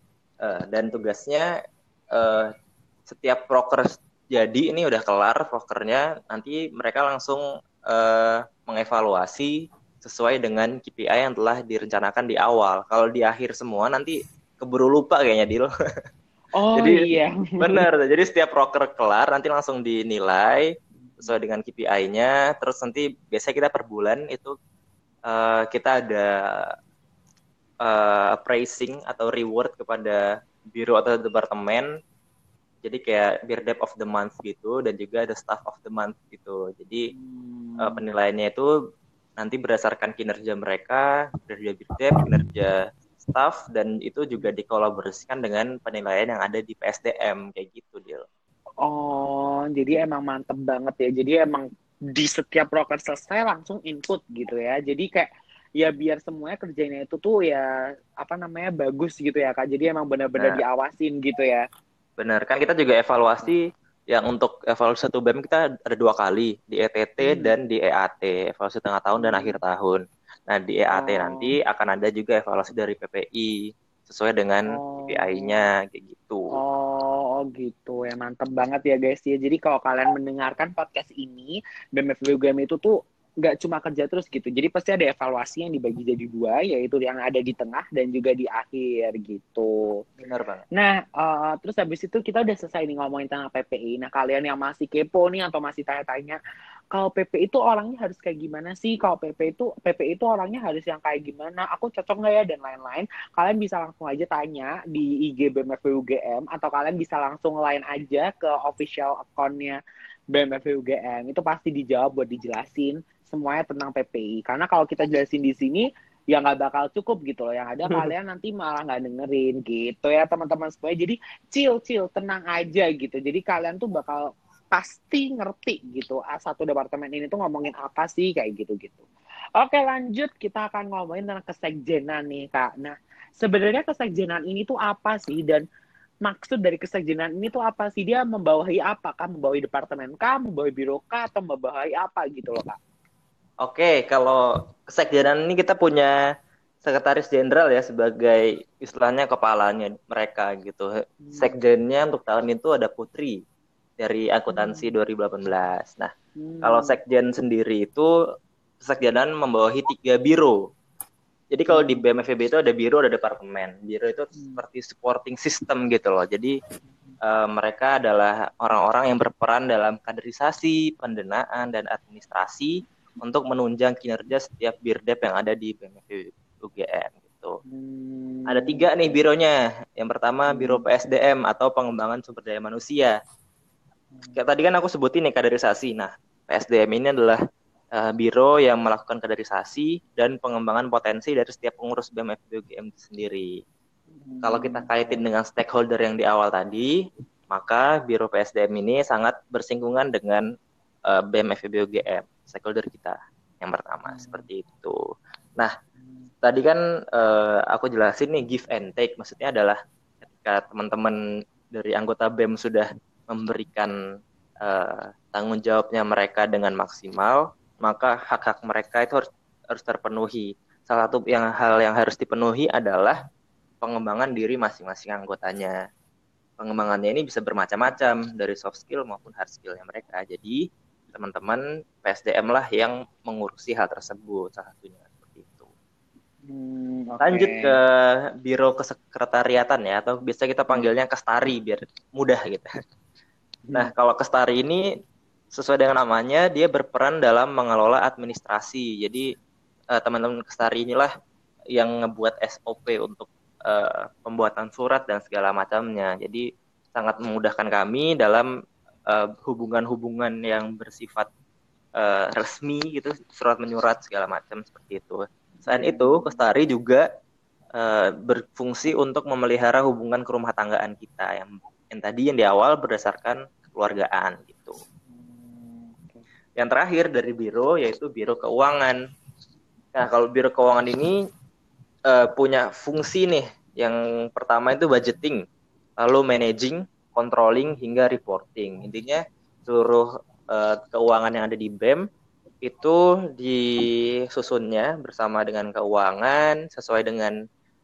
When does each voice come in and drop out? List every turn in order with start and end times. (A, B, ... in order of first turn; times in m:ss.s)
0:00.4-0:01.5 A
0:02.1-0:02.5 A
0:03.1-0:15.7 A
0:16.5-0:17.8 B
0:16.7-0:17.0 A
0:17.6-0:24.5 A
0:25.3-0:26.7 A
0:27.8-0:32.0 A
0:32.8-0:37.1 A
0:37.1-0:38.0 B
0:37.8-0:38.7 A
0:39.4-0:48.2 A
0:48.8-0:57.7 B
0:58.2-1:01.6 B
1:02.2-1:16.5 A
1:07.2-1:07.5 B
1:09.2-1:09.6 B
1:10.9-1:11.5 B
1:14.7-1:15.6 B
1:16.5-1:30.0 B
1:30.2-1:30.6 A
1:30.7-1:36.4 B
1:36.9-1:49.8 B
1:50.3-2:09.0 B
2:09.6-2:15.6 B
2:16.2-2:22.8 B
2:23.6-2:26.2 A
2:26.8-2:33.4 A
2:31.2-2:31.5 B
2:34.0-2:38.1 A
2:34.5-2:34.9 B
2:36.4-2:37.0 B
2:38.8-2:40.7 A
2:41.5-2:46.6 A
2:41.7-2:42.0 B
2:47.2-2:57.6 A
2:57.6-2:58.9 B
2:58.5-3:03.2 A
3:00.5-3:00.8 B
3:04.3-3:07.4 A
3:07.9-3:13.6 A
3:14.2-3:15.2 B
3:14.4-3:16.9 A
3:17.5-3:20.4 A
3:21.1-3:25.0 A
3:24.1-3:24.4 B
3:26.4-3:29.8 A
3:30.4-3:31.2 A
3:31.7-3:33.9 A
3:34.6-3:43.2 A
3:43.8-3:45.8 A
3:46.6-3:55.7 A
3:56.5-3:57.7 B
3:57.2-4:02.7 A
4:03.7-4:04.8 A
4:05.5-4:09.3 A
4:09.9-4:11.1 A
4:11.7-4:18.5 A
4:19.1-4:21.3 A
4:22.0-4:27.0 A
4:25.6-4:26.4 B
4:27.7-4:34.8 A
4:35.1-4:36.2 B
4:36.6-4:39.0 A
4:39.9-4:41.2 A
4:42.1-4:45.4 A
4:46.0-4:52.0 A
4:52.6-4:57.3 A